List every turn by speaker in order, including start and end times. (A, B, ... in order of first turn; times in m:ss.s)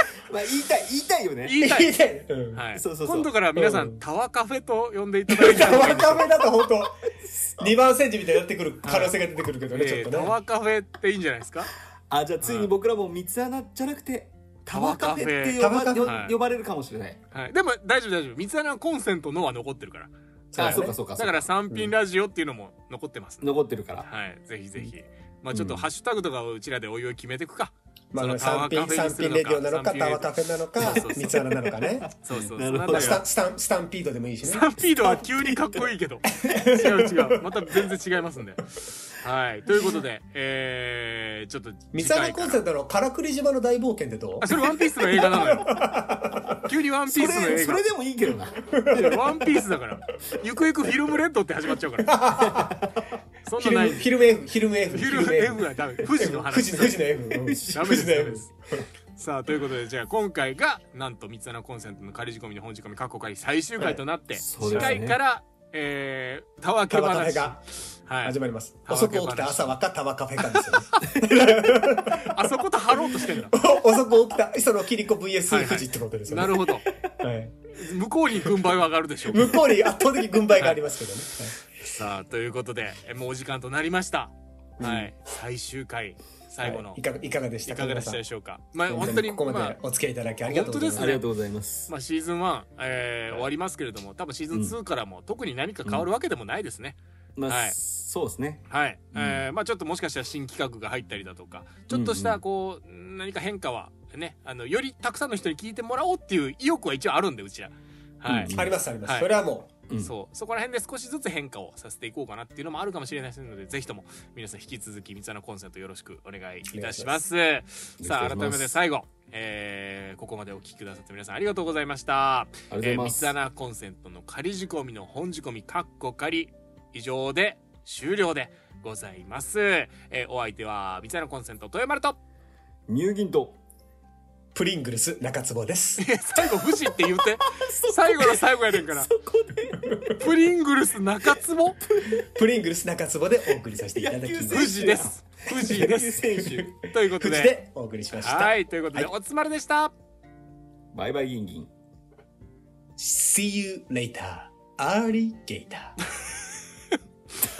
0:00.2-0:01.6 A
0:01.4-0:01.9 B
0:01.6-0:02.6 C
0:02.5-0:06.3 B
0:02.7-0:03.3 A
0:03.6-0:04.0 C
0:05.3-0:10.3 C
0:07.2-0:07.7 A
0:08.8-0:09.1 B
0:09.7-0:11.7 B
0:12.1-0:17.2 A
0:12.4-0:12.7 B
0:14.7-0:16.3 B
0:15.6-0:16.2 C
0:17.3-0:31.4 B
0:20.5-0:21.0 C
0:20.6-0:21.5 A
0:23.4-0:24.1 A
0:25.5-0:25.9 A
0:28.1-0:34.7 C
0:31.8-0:33.2 A
0:32.2-0:33.2 B
0:34.4-0:42.6 B
0:35.0-0:35.8 A
0:36.3-0:37.8 C
0:41.9-0:44.5 C
0:44.4-0:45.8 B
0:45.1-0:46.6 C
0:46.6-0:47.8 B
0:47.1-0:48.7 A
0:48.7-0:49.3 C
0:48.9-0:52.1 B
0:52.0-0:52.9 C
0:52.4-0:53.1 A
0:53.4-0:54.1 B
0:53.6-0:58.8 C
0:54.9-0:57.0 B
0:57.3-0:58.1 A
0:57.7-0:58.5 B
0:59.2-1:09.8 B
1:04.3-1:05.2 A
1:04.6-1:05.0 C
1:06.9-1:07.6 C
1:08.2-1:12.4 C
1:10.5-1:11.1 B
1:12.1-1:13.5 B
1:13.1-1:17.7 C
1:15.5-1:16.9 B
1:17.7-1:20.8 B
1:19.3-1:21.6 C
1:21.8-1:27.0 B
1:24.8-1:25.1 C
1:26.6-1:28.2 C
1:27.6-1:29.8 B
1:28.9-1:31.2 C
1:30.5-1:31.2 B
1:30.9-1:31.9 A
1:31.9-1:37.8 B
1:37.4-1:39.4 A
1:38.7-1:49.3 B
1:41.9-1:42.4 A
1:48.3-1:48.8 A
1:48.5-1:49.7 C
1:49.9-1:50.1 A
1:50.0-2:12.2 B
1:56.7-1:57.2 C
1:58.0-1:58.8 A
2:02.7-2:03.3 A
2:12.9-2:13.6 A
2:14.5-2:16.0 C
2:16.0-2:19.1 B
2:16.6-2:19.9 A
2:19.8-2:20.2 C
2:20.2-2:21.8 B
2:21.8-2:22.2 A
2:22.1-2:25.1 C
2:23.9-2:26.7 A
2:24.5-2:27.5 B
2:26.4-2:29.1 C
2:28.1-2:29.9 B
2:30.9-2:31.7 A
2:33.0-2:36.0 C